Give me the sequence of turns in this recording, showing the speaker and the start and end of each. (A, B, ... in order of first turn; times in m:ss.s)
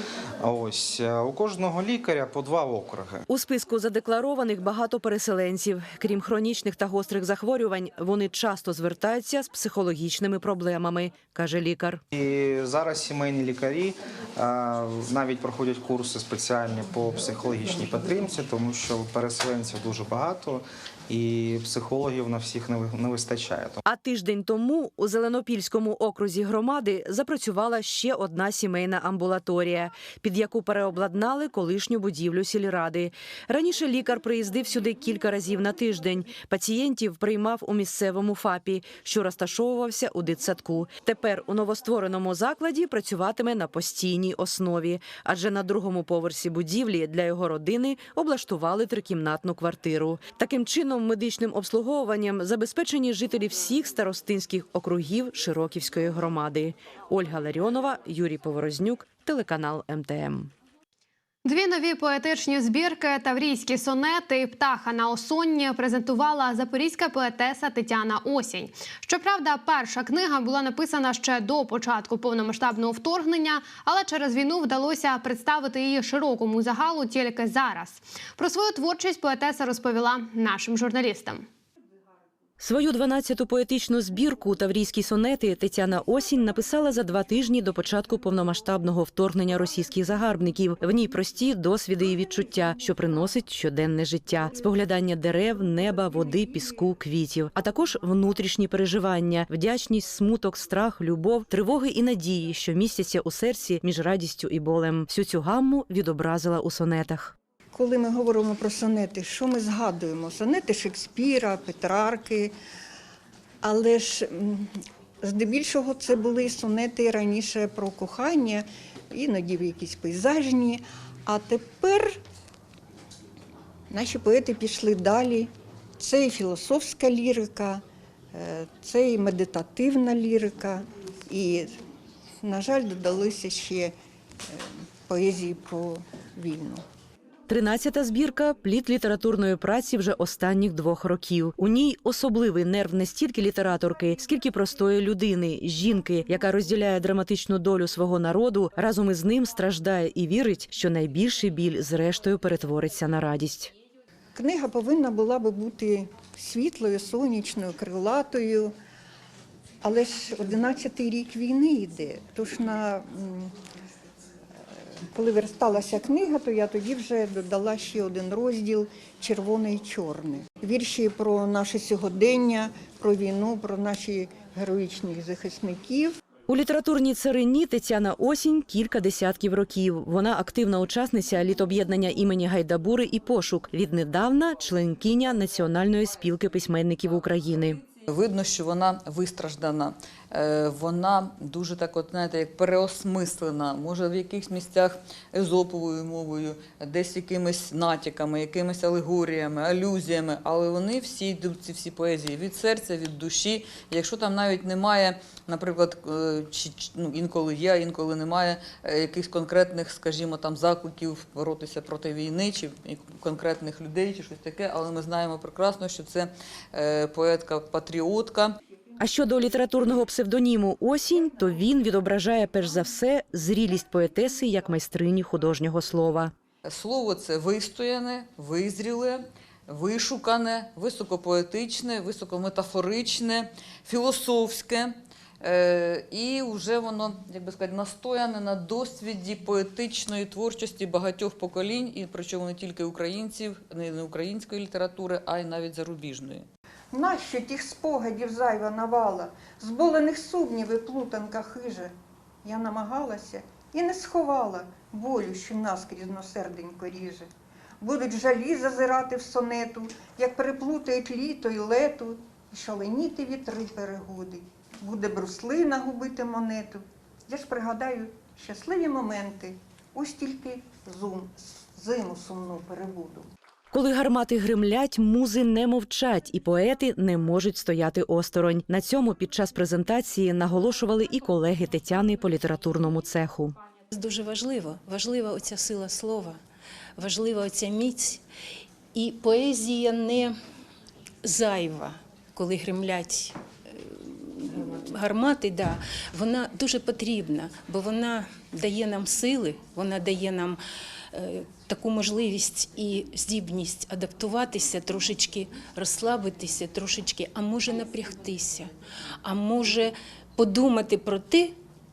0:00.4-0:03.3 A
0:03.3-0:12.0 B
0:12.1-0:23.8 A
0:23.8-1:00.5 B
1:01.4-1:21.5 C
1:22.6-1:47.4 B
1:47.7-1:52.5 D
1:53.6-2:02.2 D
2:03.9-2:07.8 D
2:08.3-2:11.8 D
2:12.4-2:13.9 D
2:14.5-2:16.8 D
2:17.5-2:33.7 B
2:34.4-2:38.7 D
2:39.8-2:43.5 D
2:45.0-2:56.2 D
2:56.5-3:07.8 B
3:08.1-3:38.6 E
3:39.0-3:46.4 B
3:46.6-4:06.5 E
4:06.9-4:11.9 D
4:12.4-4:17.3 D
4:17.8-4:33.3 D
4:33.7-4:43.6 B
4:43.9-4:46.4 F
4:47.0-4:48.2 F
4:48.9-4:50.4 F
4:51.2-5:00.6 F
5:01.1-5:08.7 F
5:09.2-5:11.6 F